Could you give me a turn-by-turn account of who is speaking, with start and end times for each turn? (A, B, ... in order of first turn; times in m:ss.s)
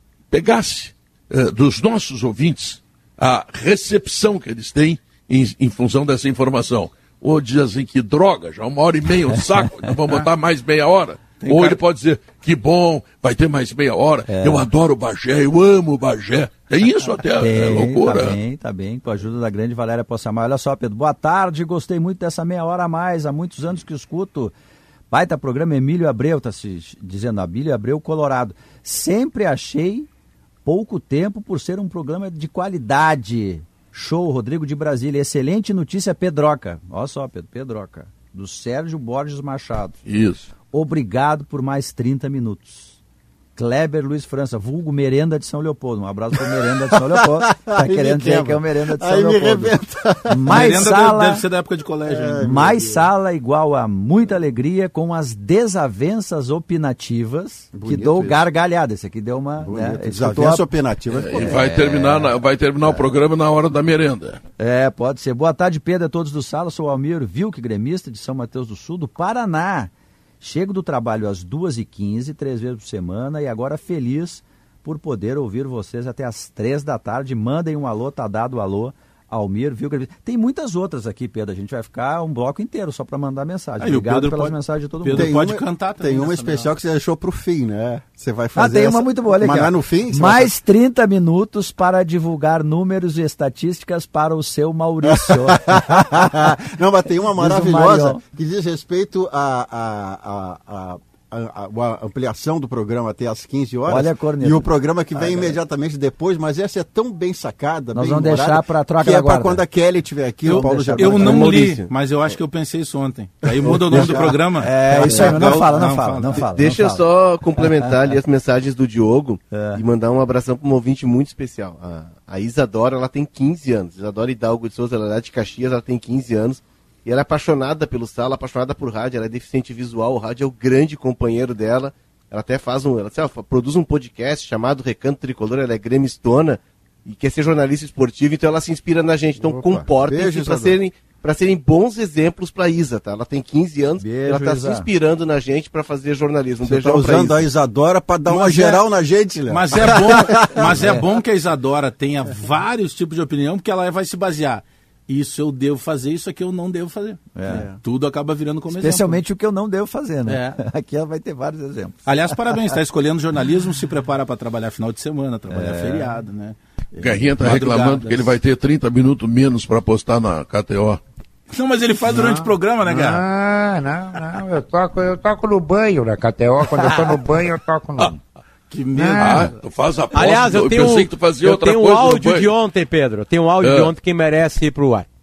0:00.3-0:18.4 A
0:11.4-0:11.8 B
0:14.3-0:14.7 C
0:17.4-0:24.5 C
0:25.1-0:30.1 C
0:30.6-0:40.0 C
0:40.0-0:40.5 A
0:40.7-0:42.9 C
0:43.6-0:49.8 C
0:47.2-0:50.8 D
0:50.3-0:51.4 C
0:50.5-0:52.7 B
0:52.1-0:53.0 D
0:52.4-1:00.7 C
0:57.7-0:58.4 D
0:59.6-1:02.3 D
1:01.1-1:04.4 A
1:01.3-1:02.1 C
1:04.6-1:25.4 C
1:23.8-1:26.7 B
1:25.1-1:30.5 D
1:28.6-1:36.2 C
1:35.1-1:51.7 D
1:37.4-1:38.2 C
1:43.9-1:45.5 C
1:47.9-1:49.6 C
1:50.4-1:56.6 B
1:50.5-1:51.2 C
1:51.0-1:52.4 E
1:53.6-1:54.3 E
1:53.7-1:54.3 D
1:54.6-1:57.0 C
1:55.0-1:55.4 E
1:56.4-2:27.4 E
1:59.5-1:59.8 C
2:19.4-2:20.8 D
2:24.0-2:24.9 C
2:26.6-2:31.0 D
2:28.3-2:28.8 B
2:29.5-2:37.2 B
2:30.7-2:31.0 C
2:37.3-2:37.6 C
2:37.4-2:37.8 D
2:37.8-2:39.2 B
2:38.7-2:42.6 C
2:40.2-2:40.6 B
2:42.0-2:48.4 B
2:45.5-2:46.1 C
2:47.0-2:51.0 A
2:51.5-2:53.2 B
2:52.0-2:58.2 F
2:58.7-2:59.5 B
2:58.9-2:59.5 F
2:59.2-3:02.5 A
3:00.1-3:05.1 G
3:03.6-3:03.9 A